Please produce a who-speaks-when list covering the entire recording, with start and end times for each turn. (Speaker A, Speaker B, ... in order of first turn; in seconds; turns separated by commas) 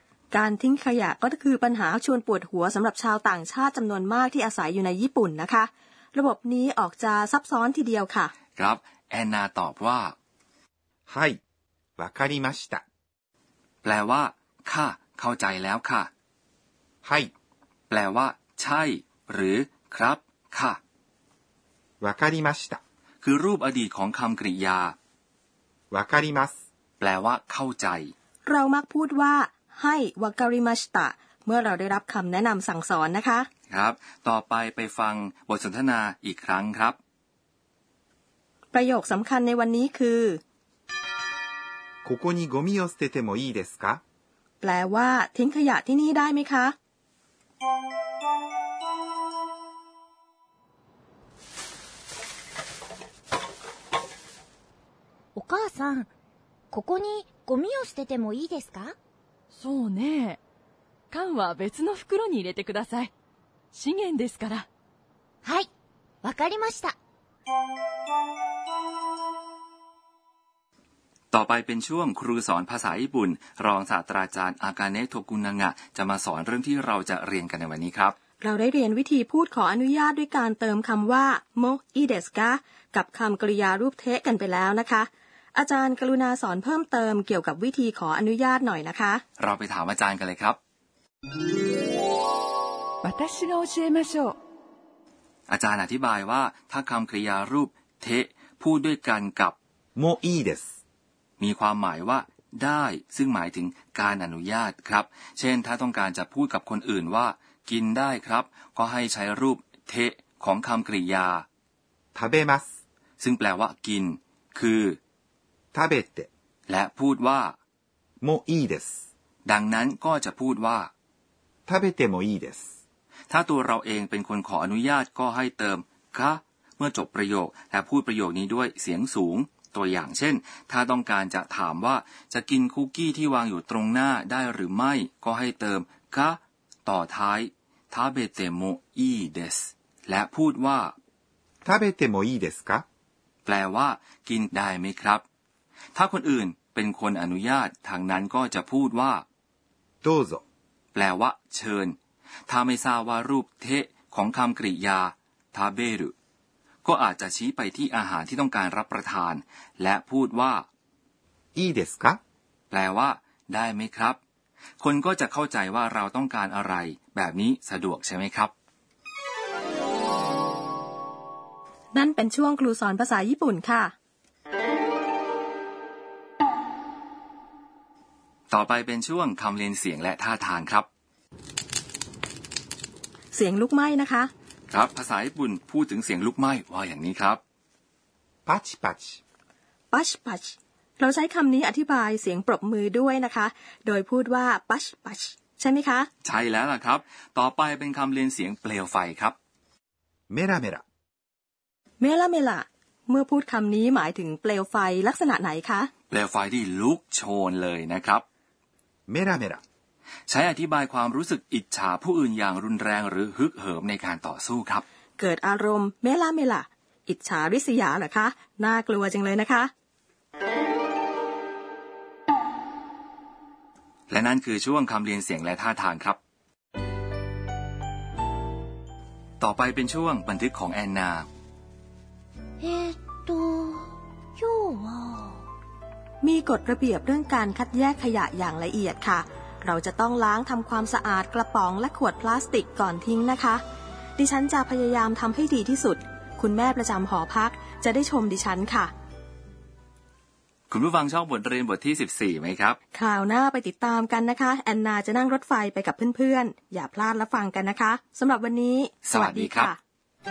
Speaker A: 0.3-8.3, Speaker B: 8.6-10.1, Speaker C: 11.1-11.4, Speaker C: 12.0-12.8, Speaker B: 13.8-16.1, Speaker C: 17.0-17.3, Speaker B: 17.9-20.8, Speaker C: 22.0-22.8, Speaker B: 23.2-24.9, Speaker C: 25.9-26.6, Speaker B: 27.0-28.1, Speaker A: 28.5-33.5, Speaker B: 33.7-37.0, Speaker A: 38.7-40.4, Speaker C: 42.0-44.0, Speaker A: 44.6-46.8, Speaker D: 55.4-56.1, Speaker D: 56.7-59.0, Speaker E: 59.5-60.4, Speaker E: 61.1-63.1, Speaker E: 63.7-64.7, Speaker D: 65.4-65.7, Speaker D: 66.2-67.0, Speaker B: 71.3-78.2, Speaker A: 78.4-89.2, Speaker B: 89.4-90.6, Speaker E: 93.0-94.4, Speaker B: 95.5-99.6, Speaker C: 100.0-100.7, Speaker B: 101.4-111.5, Speaker C: 112.2-112.7, Speaker B: 113.2-115.0, Speaker C: 115.7-116.3, Speaker B: 116.7-117.6, Speaker C: 118.2-119.0, Speaker B: 119.5-120.9, Speaker C: 121.7-122.7, Speaker B: 123.3-140.9, Speaker C: 141.6-142.8, Speaker B: 143.5-145.2, Speaker B: 145.9-149.2, Speaker C: 150.0-150.4, Speaker B: 150.9-152.0, Speaker B: 152.5-156.1, Speaker B: 156.8-160.7, Speaker C: 161.6-162.2, Speaker B: 162.7-164.2, Speaker B: 164.8-168.5, Speaker A: 171.9-173.9, Speaker B: 178.5-180.9, Speaker A: 183.3-184.3, Speaker B: 184.7-187.4, Speaker C: 188.5-189.2, Speaker A: 189.9-196.1, Speaker B: 196.2-199.3, Speaker C: 200.3-200.8, Speaker A: 202.0-205.9, Speaker B: 206.1-208.2, Speaker C: 209.1-209.6, Speaker B: 210.3-214.8, Speaker A: 215.2-219.7, Speaker B: 224.1-226.2, Speaker B: 229.4-231.3, Speaker D: 232.6-235.4, Speaker A: 236.2-243.6, Speaker A: 244.2-248.9, Speaker B: 250.7-252.8, Speaker A: 252.9-259.8, Speaker B: 259.1-259.7